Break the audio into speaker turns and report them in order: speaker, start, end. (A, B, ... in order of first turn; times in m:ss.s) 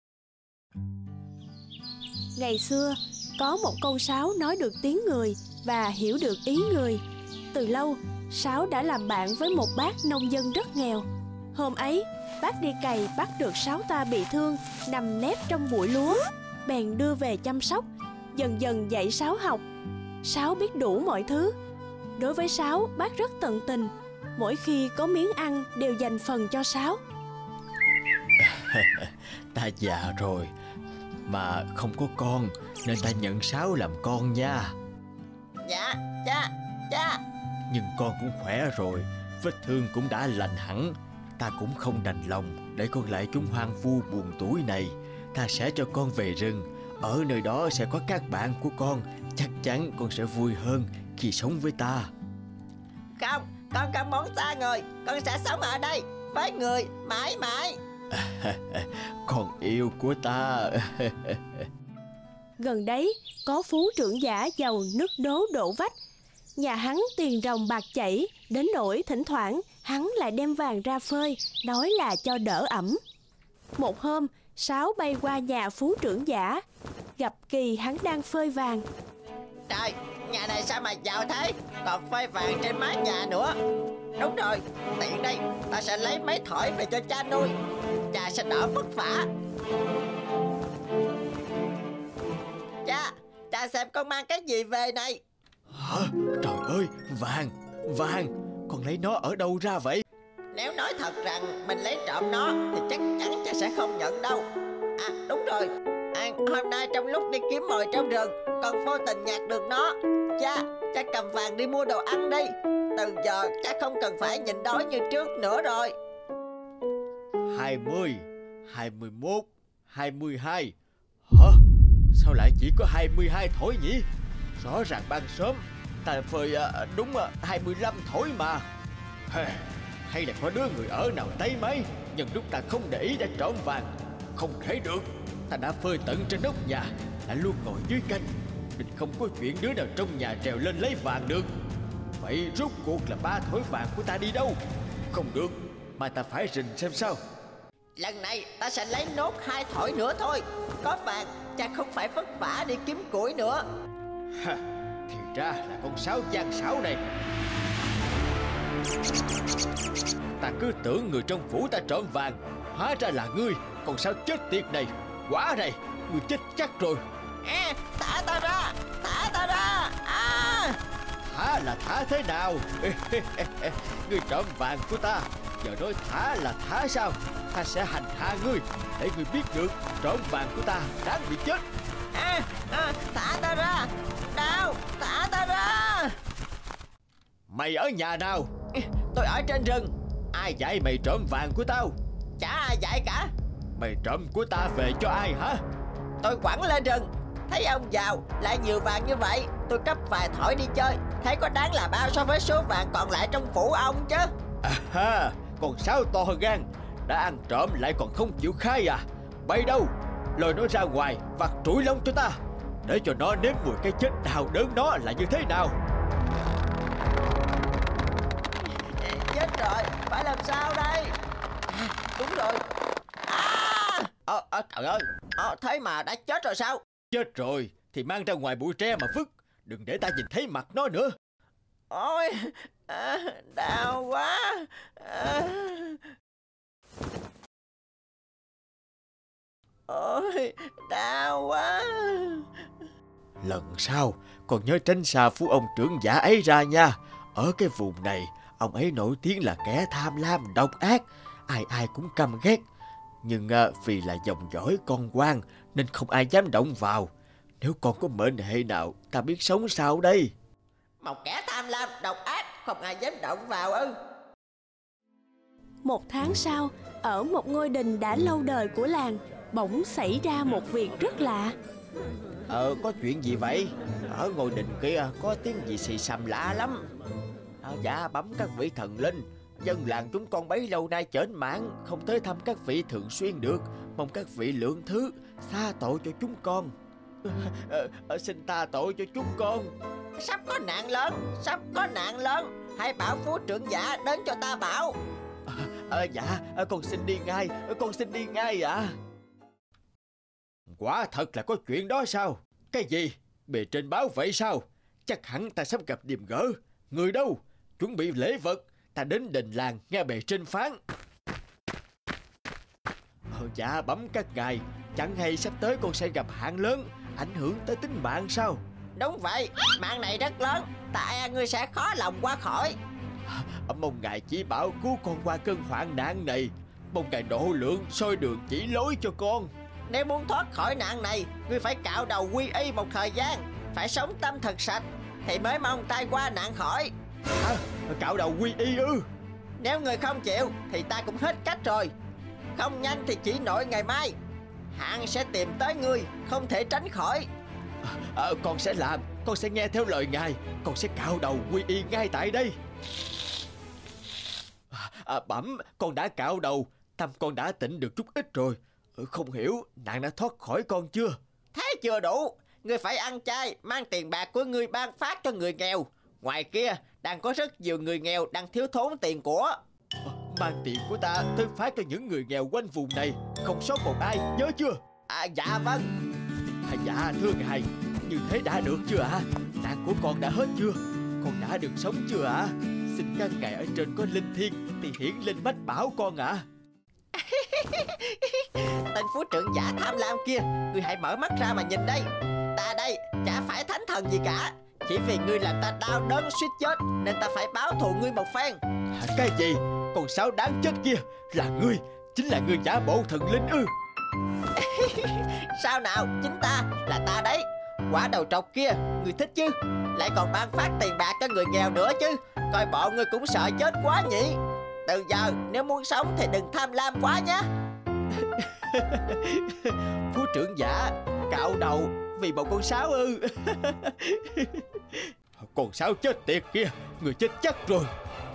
0:02.4-0:07.0 A
0:07.5-0:19.6 A
0:20.2-0:21.5 A
0:22.2-0:27.0 A
0:28.4-0:30.5 B
0:31.3-0:34.8 B
0:35.6-0:37.2 C
0:37.7-0:52.1 B
0:53.2-0:57.8 C
0:58.1-1:01.7 B
1:02.6-1:05.9 A
1:06.6-1:13.0 A
1:13.8-1:16.6 A
1:17.2-1:18.8 A
1:19.7-1:23.6 C
1:24.2-1:27.6 C
1:28.1-1:29.3 C
1:32.8-1:35.2 C
1:35.7-1:40.0 B
1:40.5-1:44.4 C
1:45.0-1:55.9 C
1:57.5-2:00.7 B
2:01.3-2:01.6 B
2:02.1-2:04.1 B
2:04.6-2:08.7 B
2:09.3-2:21.5 B
2:22.2-2:24.6 B
2:25.1-2:27.2 B
2:28.0-2:33.6 C
2:34.3-2:37.0 B
2:40.4-2:47.0 B
2:47.4-2:50.8 C
2:51.2-3:01.6 B
3:02.1-3:06.2 C
3:07.5-3:08.5 B
3:09.1-3:12.0 B
3:12.4-3:13.3 C
3:13.8-3:15.6 B
3:16.2-3:24.3 C
3:24.6-3:35.8 B
3:38.6-3:41.2 C
3:41.7-3:42.6 C
3:43.3-3:46.8 C
3:47.1-3:51.2 B
3:51.9-3:56.0 C
3:59.9-4:02.4 C
4:03.4-4:12.6 B
4:13.2-4:17.1 B
4:17.6-4:20.3 B
4:21.0-4:24.0 C
4:25.8-4:31.5 A
4:32.5-4:36.8 B
4:37.6-4:49.7 B
4:50.2-4:55.0 C
4:55.5-4:59.0 B
5:00.7-5:10.8 B
5:13.3-5:18.6 B
5:19.0-5:22.8 C
5:23.3-5:29.5 B
5:29.9-5:36.9 C
5:37.4-5:39.1 B
5:39.6-5:41.9 C
5:42.6-5:44.2 C
5:44.7-5:47.3 C
5:47.8-5:52.6 B
5:54.7-6:01.2 B
6:01.5-6:09.6 C
6:10.0-6:14.8 B
6:15.1-6:15.9 C
6:16.7-6:26.4 B
6:27.1-6:38.6 C
6:38.9-6:43.7 B
6:44.6-6:57.5 C
6:58.1-7:07.9 B